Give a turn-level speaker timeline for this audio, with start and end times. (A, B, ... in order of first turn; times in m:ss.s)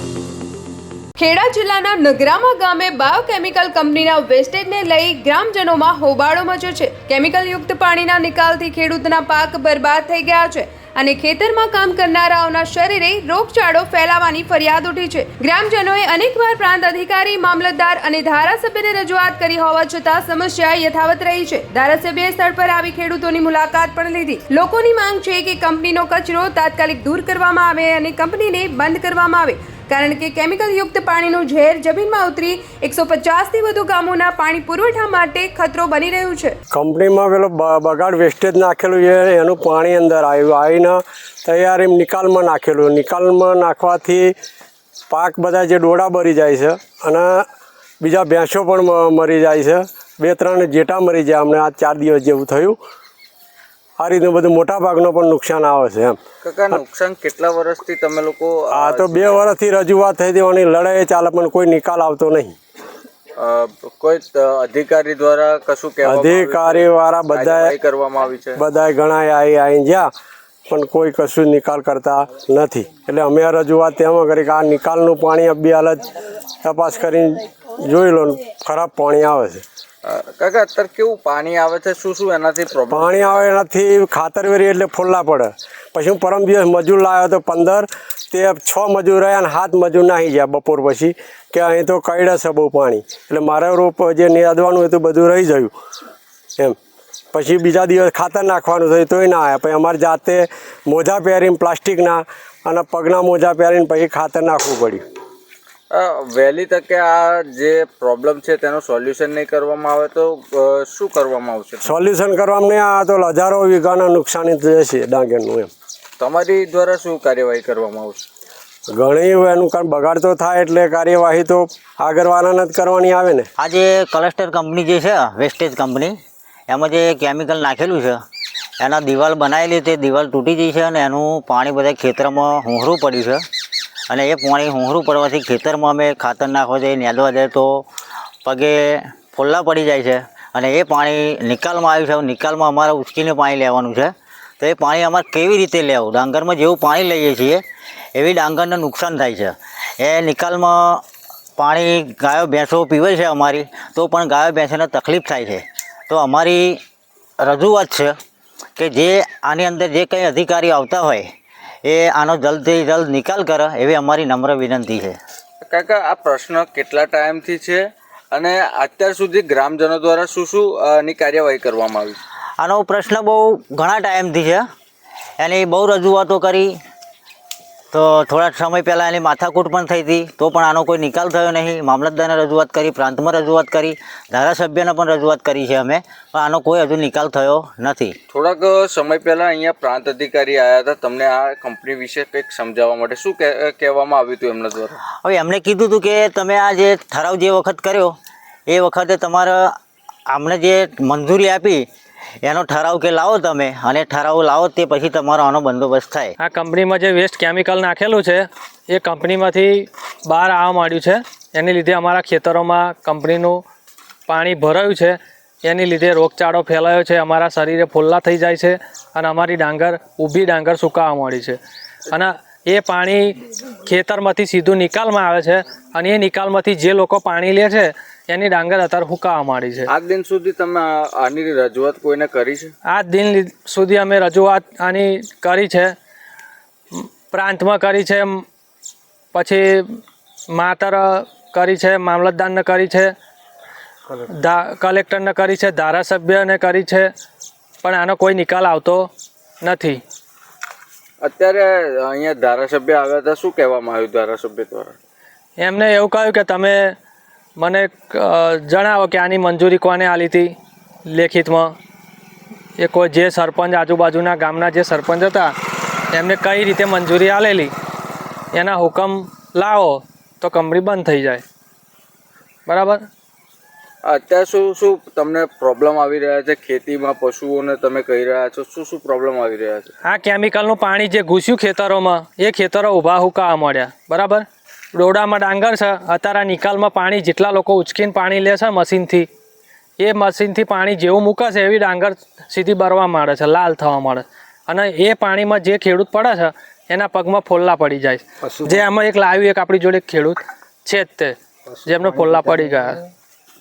0:01.2-0:36.6 A
0:36.7-0:44.3 B
0:45.1-0:47.4 B
0:48.0-0:52.8 B
0:54.0-0:56.2 B
0:56.4-0:59.5 C
0:58.7-1:02.5 B
1:03.4-1:08.6 C
1:06.0-1:07.7 B
1:08.6-1:10.1 B
1:10.7-1:16.1 B
1:16.6-1:19.6 B
1:20.0-1:23.4 C
1:22.9-1:35.7 B
1:37.3-1:45.0 B
1:45.9-1:51.8 C
1:51.8-1:55.7 B
1:56.2-1:58.2 C
1:58.9-2:03.5 B
2:03.6-2:06.1 D
2:06.7-2:08.2 D
2:08.8-2:13.4 D
2:14.1-2:17.9 D
2:18.4-2:27.6 D
2:28.1-2:31.0 D
2:31.6-2:36.8 D
2:37.4-2:38.1 D
2:38.8-2:41.2 D
2:41.8-2:45.2 D
2:45.6-2:52.2 C
2:52.6-2:54.6 D
2:55.4-2:56.7 D
2:57.9-3:08.1 D
3:08.3-3:15.0 C
3:15.2-3:18.1 D
3:18.7-3:19.7 D
3:20.3-3:21.8 D
3:22.4-3:26.3 D
3:26.4-3:33.6 E
3:34.3-3:41.6 E
3:42.1-3:49.9 E
3:49.9-3:52.7 C
3:52.9-3:55.9 E
3:56.9-3:58.4 E
3:59.3-3:59.8 E
4:00.5-4:03.1 E
4:04.2-4:07.1 E
4:07.8-4:09.1 E
4:09.6-4:10.0 E
4:11.2-4:15.0 C
4:15.6-4:16.9 E
4:17.6-4:20.5 E
4:21.1-4:21.7 E
4:22.8-4:25.5 E
4:26.1-4:27.7 E
4:28.5-4:31.4 E
4:32.7-4:33.0 E
4:34.0-4:39.9 C
4:40.0-4:49.3 E
4:50.0-5:03.0 E